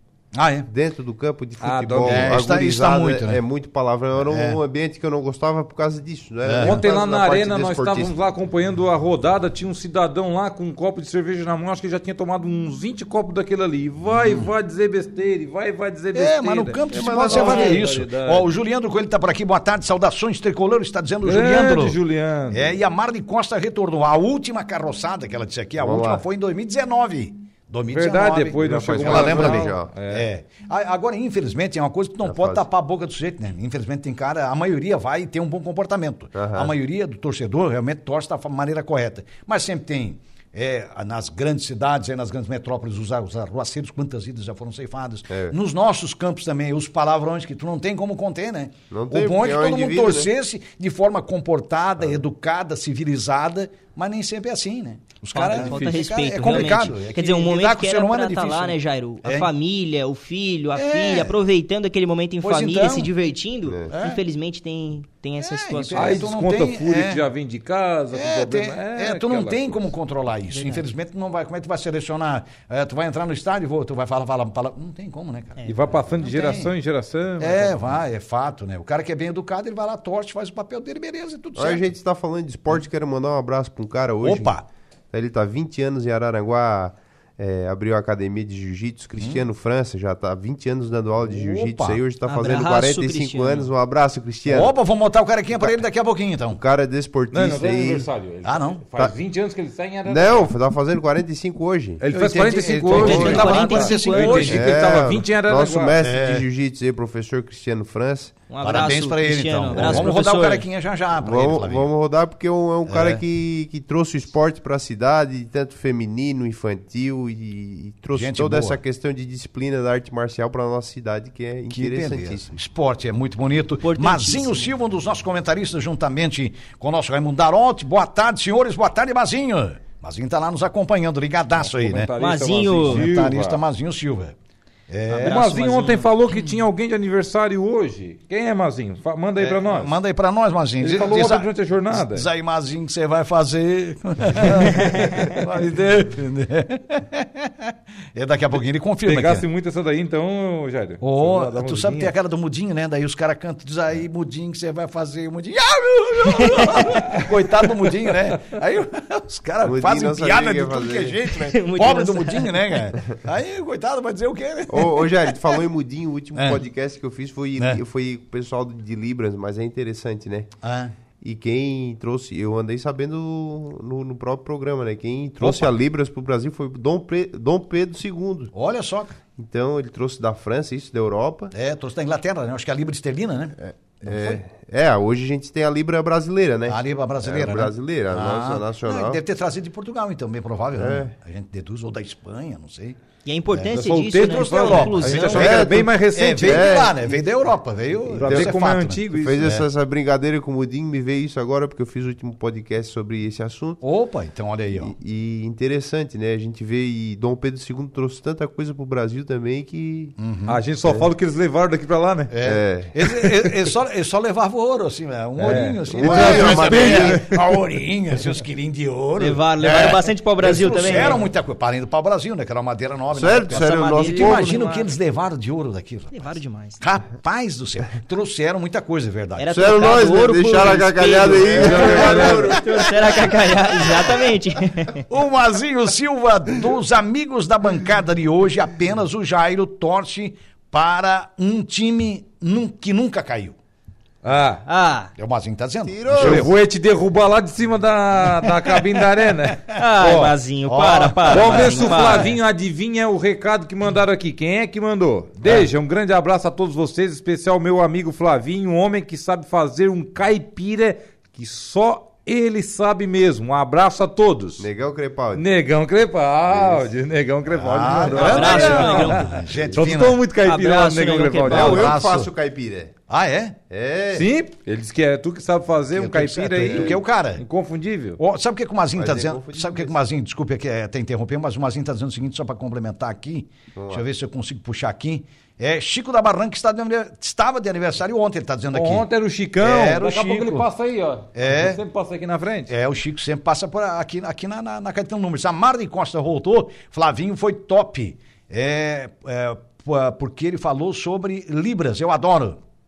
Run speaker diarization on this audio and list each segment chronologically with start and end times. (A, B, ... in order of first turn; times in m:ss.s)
0:00.3-0:00.7 A
0:00.7-0:08.1 B
0:01.6-0:02.5 C
0:02.0-0:03.4 A
0:04.2-0:04.6 A
0:06.4-0:06.9 A
0:06.6-0:18.5 C
0:14.1-0:14.5 A
0:16.2-0:22.0 A
0:16.9-0:17.8 B
0:21.2-0:22.8 C
0:22.5-0:59.5 A
0:25.8-0:26.2 B
0:27.9-0:30.3 C
0:28.6-0:29.9 B
0:32.2-0:32.6 B
0:36.4-0:36.7 B
0:45.3-0:45.6 B
0:48.9-0:50.3 B
0:55.3-1:06.2 D
1:00.8-1:01.4 A
1:02.4-1:03.1 A
1:03.9-1:04.2 A
1:05.4-1:07.2 A
1:05.9-1:09.9 C
1:08.1-1:16.7 A
1:10.5-1:10.8 D
1:15.6-1:17.9 C
1:17.4-1:21.9 A
1:21.6-1:24.5 B
1:24.2-1:24.6 A
1:25.1-1:34.8 B
1:29.2-1:29.4 A
1:31.2-1:32.6 A
1:32.3-1:33.7 D
1:34.5-1:36.6 A
1:35.5-1:35.8 B
1:36.5-1:38.1 B
1:37.3-1:40.5 C
1:38.4-1:38.8 A
1:40.1-1:42.0 B
1:42.0-1:46.0 C
1:42.1-1:44.7 A
1:42.9-1:44.5 D
1:42.9-1:43.7 B
1:44.5-1:48.3 B
1:46.0-1:46.5 A
1:48.5-1:50.6 D
1:48.6-1:51.9 A
1:49.7-1:50.1 B
1:51.2-2:02.5 B
1:52.8-1:53.2 A
1:58.1-1:58.8 A
2:01.7-2:12.1 A
2:03.8-2:04.7 D
2:11.6-2:13.6 C
2:12.2-2:13.0 D
2:12.9-2:14.4 A
2:14.9-2:15.7 A
2:15.1-2:16.1 D
2:15.2-2:19.9 C
2:16.3-2:16.6 A
2:19.4-2:29.5 A
2:20.8-2:22.3 C
2:29.0-2:32.1 C
2:31.0-2:45.3 A
2:36.3-2:37.0 D
2:39.6-2:41.2 B
2:41.4-2:42.6 D
2:44.7-2:50.5 B
2:46.4-2:46.6 A
2:50.6-2:50.9 A
2:51.2-2:58.5 B
2:55.4-2:55.8 A
2:58.5-2:59.2 A
2:59.4-3:01.5 B
3:01.5-3:04.4 A
3:03.6-3:09.2 B
3:06.7-3:13.0 A
3:10.8-3:11.1 B
3:13.3-3:15.4 D
3:13.5-3:19.7 A
3:13.7-3:16.8 C
3:15.3-3:17.2 B
3:18.1-3:19.5 C
3:18.2-3:18.5 B
3:19.1-3:23.8 B
3:23.8-3:25.0 A
3:24.8-3:30.2 B
3:30.2-3:30.6 A
3:30.5-3:32.3 C
3:32.3-3:46.2 A
3:32.4-3:32.9 B
3:33.1-3:33.4 C
3:35.4-3:37.4 C
3:35.5-3:37.2 B
3:39.2-3:41.2 D
3:43.1-3:44.6 B
3:43.5-3:44.7 D
3:44.0-3:44.6 C
3:46.1-3:46.8 D
3:46.8-3:50.1 A
3:49.4-3:55.0 D
3:49.5-3:52.9 B
3:51.1-3:54.2 A
3:51.4-3:52.6 C
3:55.1-4:03.6 A
4:04.2-4:04.6 C
4:04.7-4:05.1 D
4:05.2-4:06.5 A
4:05.8-4:06.5 B
4:06.1-4:10.2 C
4:09.7-4:12.4 A
4:09.7-4:12.4 D
4:11.3-4:24.7 C
4:15.4-4:15.7 A
4:24.6-4:25.4 B
4:25.4-4:32.0 C
4:26.5-4:26.9 B
4:27.5-4:30.2 A
4:28.2-4:29.4 D
4:29.4-4:29.8 B
4:30.4-4:31.9 D
4:31.5-4:32.3 A
4:31.5-4:32.9 B
4:33.1-4:33.6 A
4:33.7-4:34.3 B
4:34.1-4:38.2 C
4:36.0-4:37.4 A
4:36.7-4:37.0 B
4:38.2-4:49.1 A
4:39.0-4:40.0 B
4:43.8-4:44.0 B
4:48.7-4:52.7 C
4:49.6-4:50.7 A
4:51.3-4:51.8 A
4:52.7-5:02.6 A